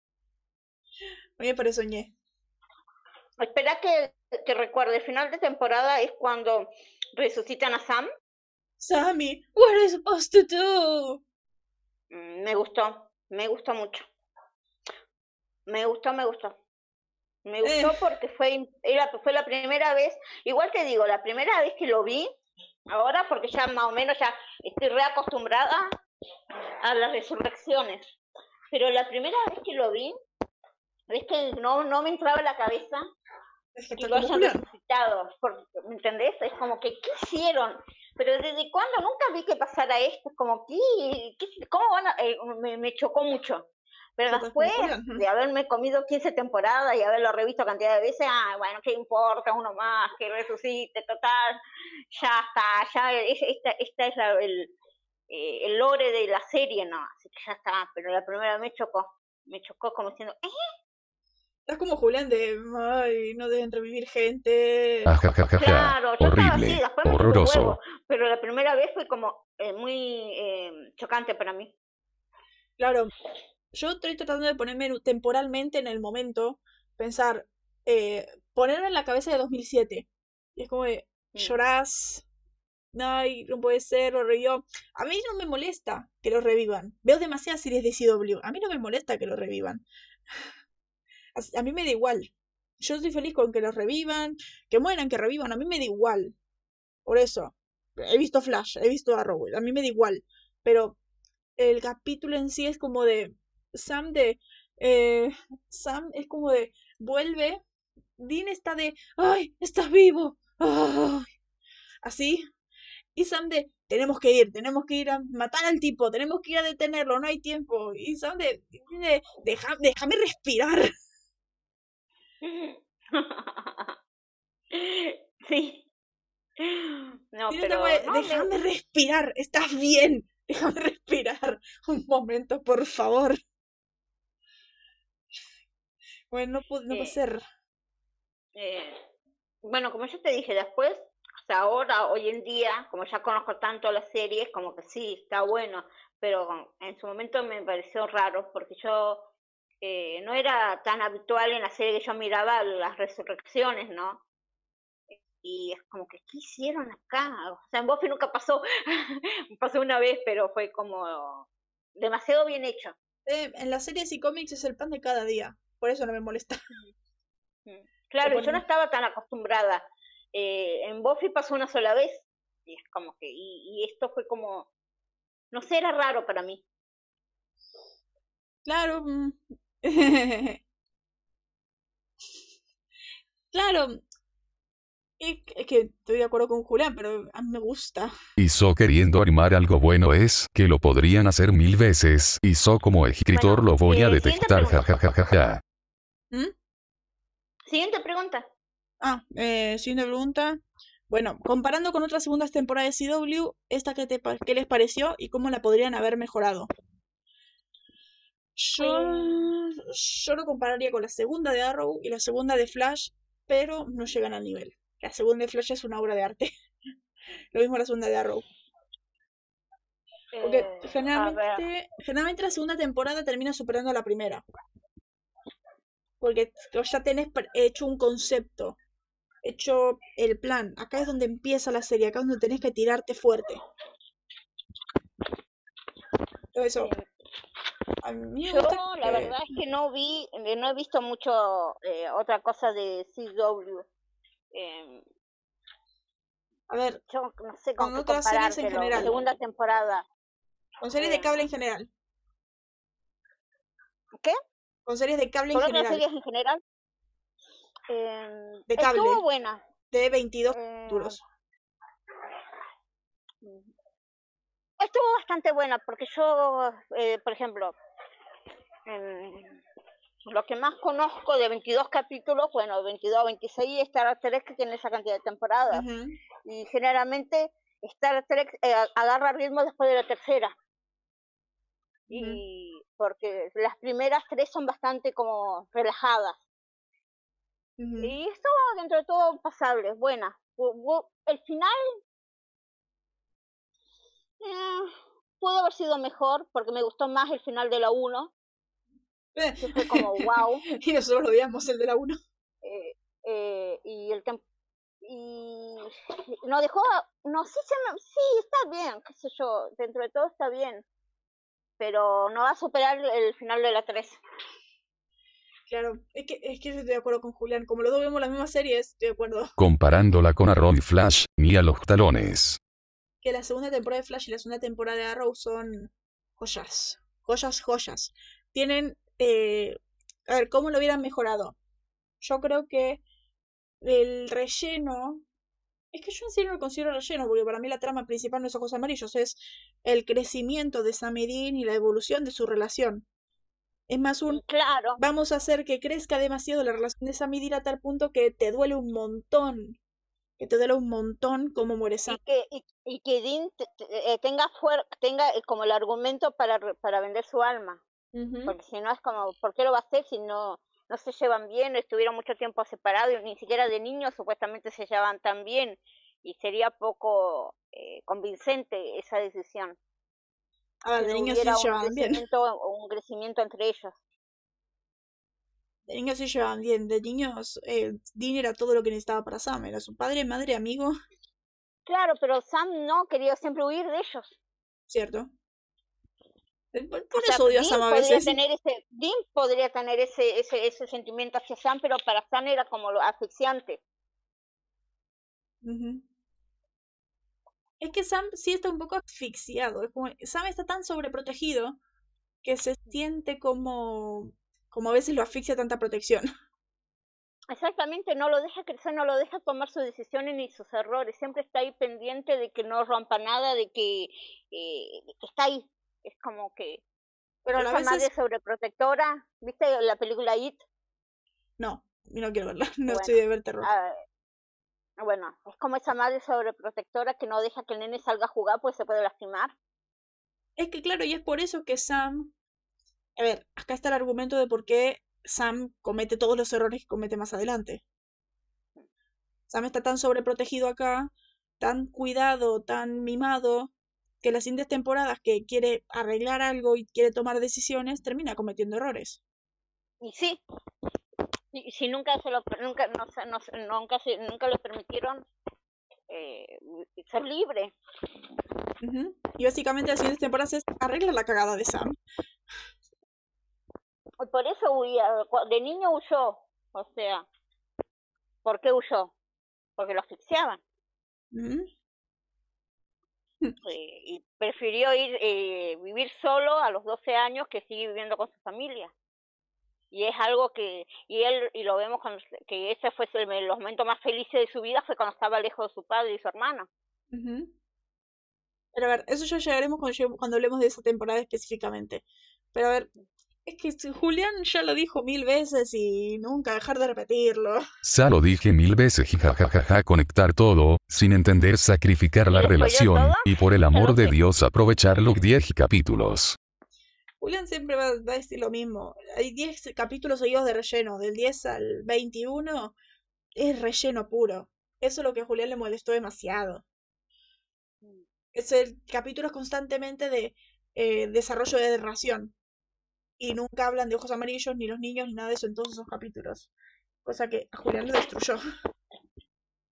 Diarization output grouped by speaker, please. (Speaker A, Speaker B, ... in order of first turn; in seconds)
Speaker A: 1.4-2.1, 8.8-11.2, 17.6-17.9, 33.8-34.7, 44.3-45.2, 61.7-65.1, 72.8-73.1, 73.7-82.2, 82.9-89.8, 91.3-96.3, 97.0-101.0, 101.6-107.6, 108.2-111.3, 112.0-112.5, 113.2-120.9, 127.5-133.4, 136.3-137.4, 163.2-166.6, 168.2-168.6, 178.7-180.6, 183.5-184.0, 185.2-188.1, 199.0-206.7, 208.6-216.5, 217.5-218.4, 220.4-224.4, 226.2-228.8, 229.4-233.6, 236.6-236.9, 238.0-239.4, 246.7-247.0, 247.8-249.1, 250.8-251.9, 254.9-256.0, 258.7-259.2, 259.9-261.2, 275.7-276.2, 282.1-282.4, 287.8-288.1, 299.4-302.2, 315.7-319.5, 323.2-331.6, 332.2-333.0, 333.8-335.2, 335.9-343.1, 343.9-344.4, 345.0-349.8, 350.4-352.2, 358.1-358.5, 370.8-372.2, 375.9-380.9, 384.9-385.3, 386.7-388.4, 395.6-396.0, 397.8-401.8, 402.4-406.3, 417.4-418.1, 421.6-423.7, 430.6-432.3, 433.2-437.8, 439.5-449.2, 458.8-462.0, 471.3-471.7, 487.1-487.5, 488.7-492.9, 493.5-497.6, 507.2-512.8, 513.4-516.6, 518.4-522.3, 523.2-526.5, 527.0-528.4
Speaker B: 3.4-8.1, 12.1-14.1, 15.7-16.6, 17.4-22.3, 22.9-25.9, 26.8-28.0, 28.7-30.1, 31.1-33.0, 34.0-43.7, 44.2-51.6, 52.1-54.7, 55.3-60.5, 65.6-71.7, 122.4-124.0, 124.7-125.8, 126.6-128.5, 136.9-137.2, 138.6-139.0, 139.6-149.3, 149.8-154.2, 155.1-162.9, 167.7-174.7, 175.5-176.6, 193.3-194.8, 197.7-198.5, 208.8-209.4, 220.3-221.7, 238.5-243.9, 244.5-245.0, 247.1-250.1, 251.0-251.4, 255.5-256.6, 257.9-259.6, 260.5-261.2, 263.4-263.7, 264.8-267.8, 268.9-269.6, 270.3-275.9, 276.4-280.6, 282.1-286.4, 288.0-292.0, 294.4-298.3, 299.6-300.6, 302.6-304.4, 305.0-310.9, 311.8-314.2, 344.3-345.0, 352.1-357.8, 358.5-369.8, 371.0-374.0, 381.9-384.4, 387.1-393.8, 407.5-416.8, 417.6-420.6, 422.9-424.0, 425.0-429.5, 450.0-450.4, 451.5-455.2, 456.1-457.8, 464.2-467.3, 468.4-469.1, 469.8-470.6, 473.6-478.9, 479.9-486.7, 502.3-504.2
Speaker C: 65.1-67.8, 188.4-195.6, 319.6-322.6, 497.8-506.4